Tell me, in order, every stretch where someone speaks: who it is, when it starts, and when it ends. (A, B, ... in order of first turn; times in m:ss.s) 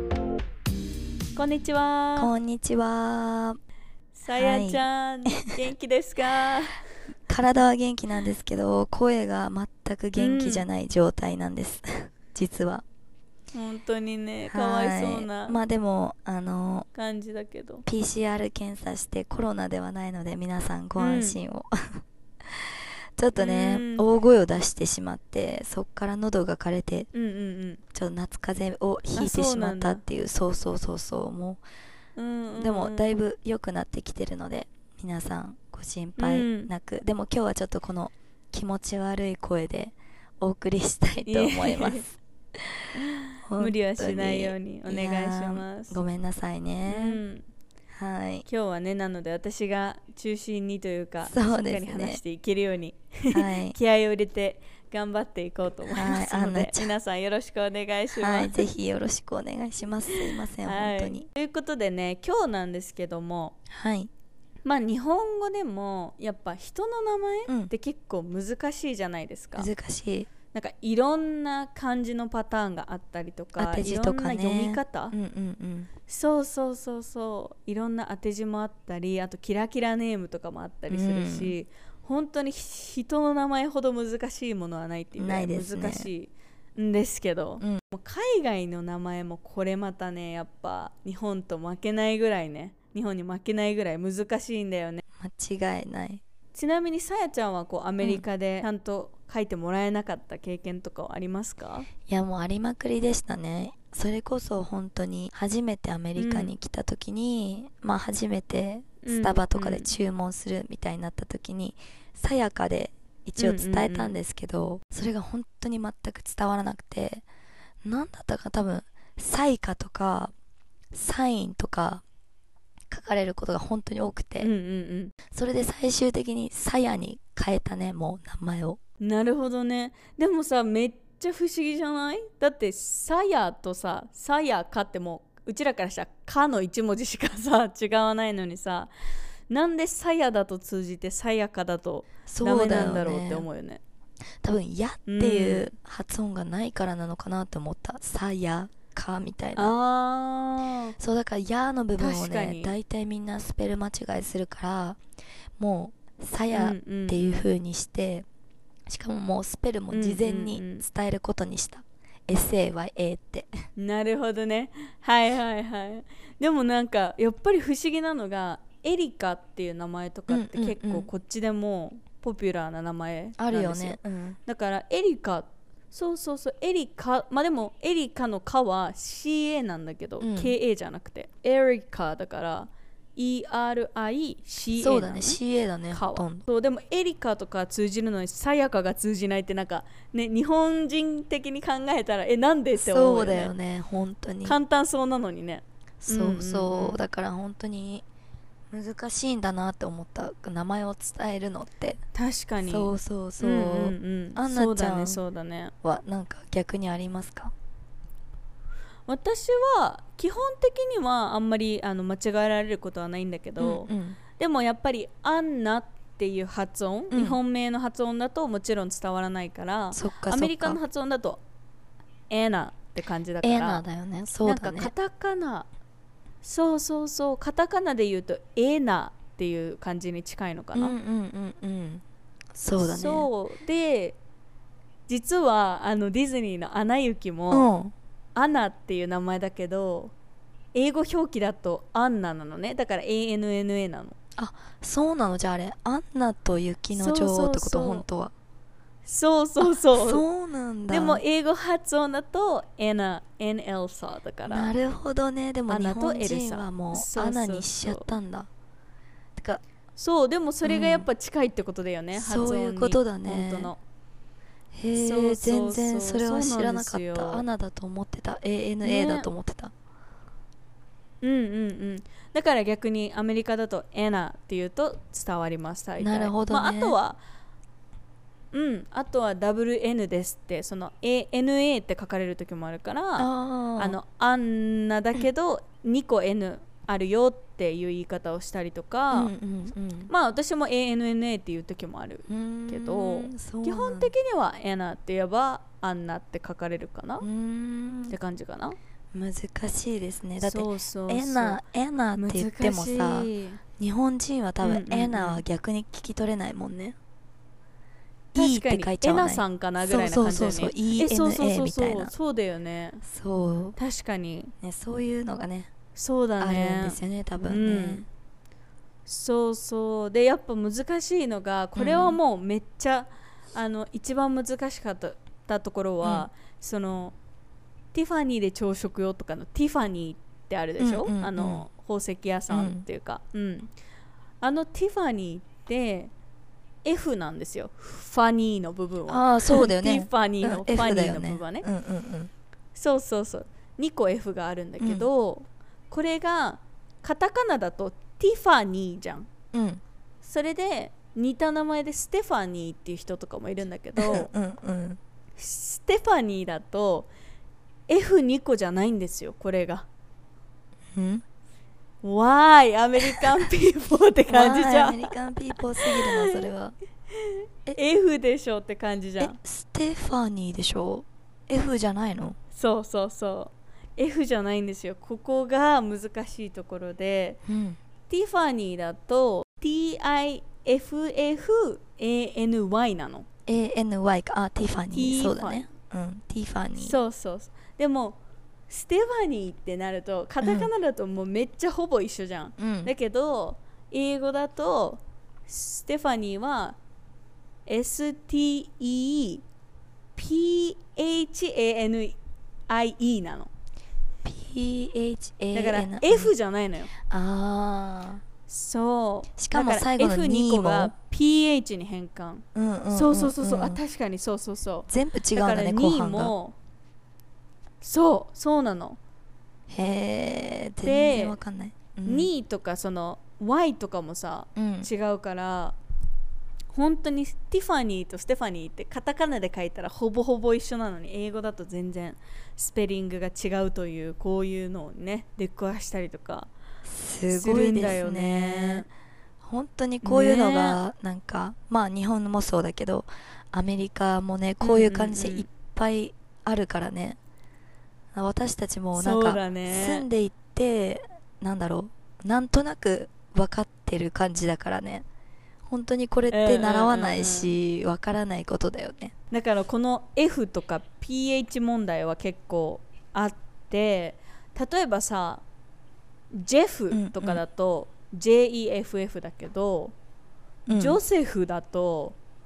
0:01.3-0:02.3 A
0:02.2-0:03.6 B
0:04.1-0:06.8 A
0:04.4-0:04.8 B
0:07.3-0:12.8 B
0:10.2-0:10.6 A
0:13.5-0:15.6 A
0:14.5-0:16.9 B
0:16.9-0:17.8 A
0:17.8-0:27.1 B
0:21.0-0:21.4 A
0:23.4-0:24.0 A
0:27.1-0:27.8 A
0:27.9-0:31.6 B
0:29.1-0:30.0 A
0:32.2-0:33.1 A
0:32.6-0:42.9 B
0:36.2-0:36.7 A
0:41.2-0:42.0 A
0:43.0-0:46.0 A
0:43.4-0:47.2 B
0:46.9-0:47.4 A
0:47.9-0:48.4 B
0:48.5-0:58.6 A
0:51.2-0:52.2 B
0:53.3-0:53.8 B
0:55.9-0:56.9 B
0:58.2-1:01.2 B
1:00.1-1:03.6 A
1:03.7-1:04.1 B
1:04.6-1:09.7 A
1:09.6-1:10.3 B
1:10.5-1:15.1 A
1:13.6-1:15.9 B
1:16.1-1:35.0 A
1:20.9-1:21.5 B
1:25.2-1:26.1 B
1:35.2-1:36.2 B
1:36.5-1:41.9 A
1:42.1-1:57.2 B
1:46.2-1:46.5 A
1:49.0-1:49.9 A
1:53.4-1:54.2 A
1:57.8-2:00.3 B
2:00.9-2:02.0 B
2:02.9-2:04.5 B
2:04.4-2:05.1 A
2:05.3-2:08.8 B
2:09.0-2:18.9 A
2:19.5-2:23.8 A
2:22.3-2:23.4 B
2:24.4-2:29.7 B
2:25.1-2:25.7 A
2:29.6-2:30.9 A
2:31.0-2:35.0 B
2:32.0-2:32.7 A
2:35.6-2:38.2 B
2:36.5-2:37.4 A
2:38.9-2:43.6 B
2:39.9-2:40.8 A
2:43.8-3:05.4 A
2:50.3-2:51.1 B
2:53.4-2:54.4 B
3:00.2-3:00.5 B
3:04.8-3:06.4 B
3:05.9-3:13.5 A
3:12.8-3:14.6 B
3:14.4-3:17.0 A
3:16.0-3:18.0 B
3:18.7-3:22.0 B
3:22.1-3:25.7 A
3:22.7-3:25.2 B
3:25.8-3:27.5 B
3:29.1-3:41.4 A
3:33.6-3:34.2 B
3:37.1-3:37.4 B
3:39.9-3:40.8 B
3:42.3-3:43.8 A
3:43.4-3:44.9 B
3:44.4-3:45.7 A
3:46.4-3:51.0 A
3:50.7-3:52.0 B
3:52.5-3:53.3 B
3:52.8-3:54.2 A
3:55.1-3:57.7 A
3:57.5-3:57.9 B
3:58.3-4:00.1 A
4:00.7-4:04.2 A
4:04.4-4:08.3 B
4:06.9-4:08.0 A
4:09.0-4:10.2 A
4:09.6-4:11.2 B
4:10.9-4:14.7 A
4:14.5-4:18.5 B
4:15.7-4:18.1 A
4:19.4-4:19.6 B
4:20.0-4:23.8 A
4:20.6-4:21.1 B
4:22.2-4:23.7 B
4:24.7-4:29.7 B
4:24.9-4:27.4 A
4:28.8-4:29.3 A
4:31.2-4:37.2 A
4:36.0-4:36.9 B
4:38.5-4:49.3 A
4:43.2-4:44.0 B
4:49.1-4:50.1 B
4:50.1-4:57.2 A
4:52.3-4:54.1 B
4:57.2-4:58.2 B
4:58.1-4:58.8 A
4:59.1-5:07.0 B
5:00.4-5:01.6 A
5:02.1-5:03.6 A
5:04.6-5:05.4 A
5:08.3-5:12.1 B
5:08.3-5:13.0 A
5:13.0-5:13.8 B
5:13.8-5:14.5 A
5:14.6-5:15.7 B
5:15.9-5:18.0 A
5:16.4-5:18.0 B
5:19.0-5:27.2 A
5:21.8-5:22.2 B
5:26.0-5:26.3 B
5:27.9-5:33.7 A
5:30.8-5:31.6 B
5:32.5-5:32.8 B
5:34.4-5:36.1 A
5:36.8-5:41.6 A
5:39.1-5:42.3 B
5:42.7-5:49.3 A
5:44.8-5:45.1 B
5:49.5-5:49.8 B
5:50.2-5:54.3 A
5:54.0-5:55.0 B
5:55.4-5:57.1 A
5:57.9-5:59.9 A
6:00.9-6:01.2 B
6:02.0-6:05.1 A
6:04.3-6:06.7 B
6:05.8-6:06.5 A
6:07.2-6:09.4 A
6:09.2-6:12.4 B
6:12.5-6:17.4 A
6:17.4-6:17.8 B
6:18.1-6:23.2 A
6:23.5-6:27.0 B
6:24.9-6:25.7 A
6:26.8-6:28.2 A
6:28.7-6:36.8 A
6:30.4-6:30.7 B
6:32.6-6:32.9 B
6:37.6-6:39.4 A
6:40.2-6:42.2 A
6:42.7-6:43.5 A
6:44.2-6:46.3 B
6:45.5-6:46.9 A
6:47.0-6:48.2 B
6:48.5-6:56.5 A
6:49.4-6:50.9 B
6:52.5-6:53.8 B
6:54.9-6:56.3 B
6:57.8-6:59.0 A
6:59.7-7:02.3 B
7:00.8-7:01.4 A
7:02.0-7:05.8 A
7:04.6-7:04.9 B
7:06.7-7:16.5 A
7:16.8-7:18.9 B
7:17.3-7:18.9 A
7:19.4-7:27.2 B
7:20.0-7:20.8 A
7:24.6-7:25.5 A
7:28.1-7:35.0 B
7:28.9-7:30.0 A
7:35.6-7:39.1 B
7:36.3-7:37.5 A
7:39.3-7:45.4 A
7:46.3-7:49.9 A
7:46.9-7:47.4 B
7:50.7-7:51.0 B
7:50.7-7:52.2 A